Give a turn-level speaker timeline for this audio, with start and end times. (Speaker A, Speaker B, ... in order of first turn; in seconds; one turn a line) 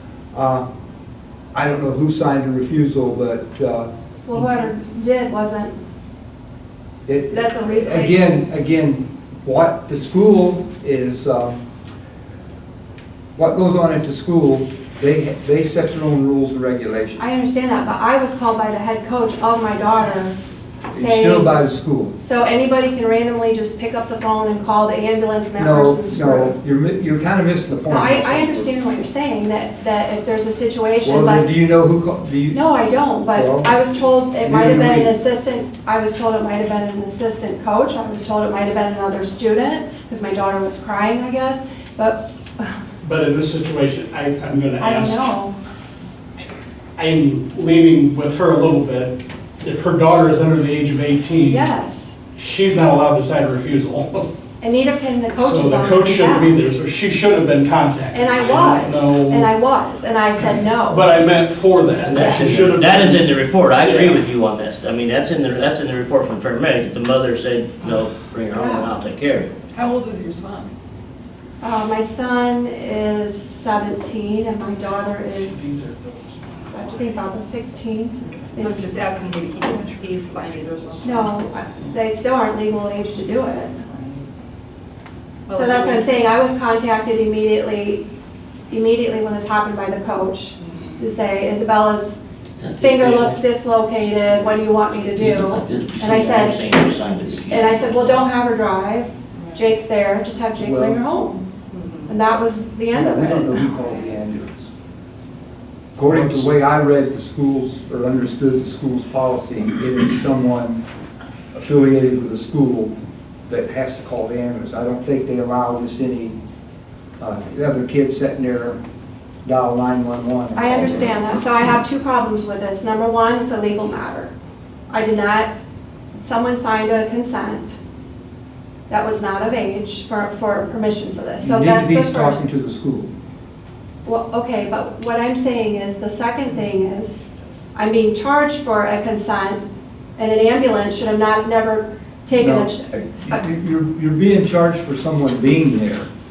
Speaker A: 0.3-0.6
Speaker A: 1.5-4.4
Speaker B: 4.2-5.8
Speaker A: 7.0-11.6
Speaker B: 7.3-8.4
Speaker A: 13.3-17.2
Speaker B: 17.2-20.3
Speaker B: 20.9-21.6
Speaker A: 20.9-22.1
Speaker B: 22.2-26.5
Speaker A: 25.6-28.7
Speaker B: 27.9-31.5
Speaker A: 31.0-32.6
Speaker B: 32.5-42.7
Speaker A: 33.3-33.7
Speaker A: 34.4-35.1
Speaker C: 43.0-45.3
Speaker B: 44.8-45.5
Speaker C: 47.0-51.7
Speaker B: 51.5-52.2
Speaker C: 52.3-54.3
Speaker B: 54.6-56.5
Speaker C: 55.3-59.5
Speaker B: 58.1-61.1
Speaker C: 60.9-64.2
Speaker B: 62.1-62.6
Speaker D: 62.1-69.5
Speaker B: 68.5-68.9
Speaker E: 69.7-70.7
Speaker B: 71.6-76.0
Speaker C: 74.8-76.0
Speaker B: 76.7-79.0
Speaker E: 78.5-81.7
Speaker B: 81.0-83.8
Speaker E: 85.5-86.2
Speaker B: 85.5-88.0
Speaker B: 88.7-92.2
Speaker E: 90.6-91.0
Speaker D: 92.6-93.5
Speaker B: 92.8-101.5
Speaker D: 94.0-94.6
Speaker D: 95.2-98.2
Speaker A: 100.6-101.0
Speaker E: 101.7-102.1
Speaker B: 102.1-103.7
Speaker A: 102.9-104.7
Speaker A: 106.0-110.8
Speaker A: 111.6-112.9
Speaker A: 113.5-116.4
Speaker A: 117.2-118.8
Speaker A: 119.4-121.2
Speaker B: 120.5-124.3
Speaker B: 124.9-125.5
Speaker B: 126.2-127.8
Speaker B: 128.9-132.4
Speaker A: 131.4-133.1
Speaker B: 134.0-139.6
Speaker B: 140.2-143.4
Speaker A: 142.4-146.1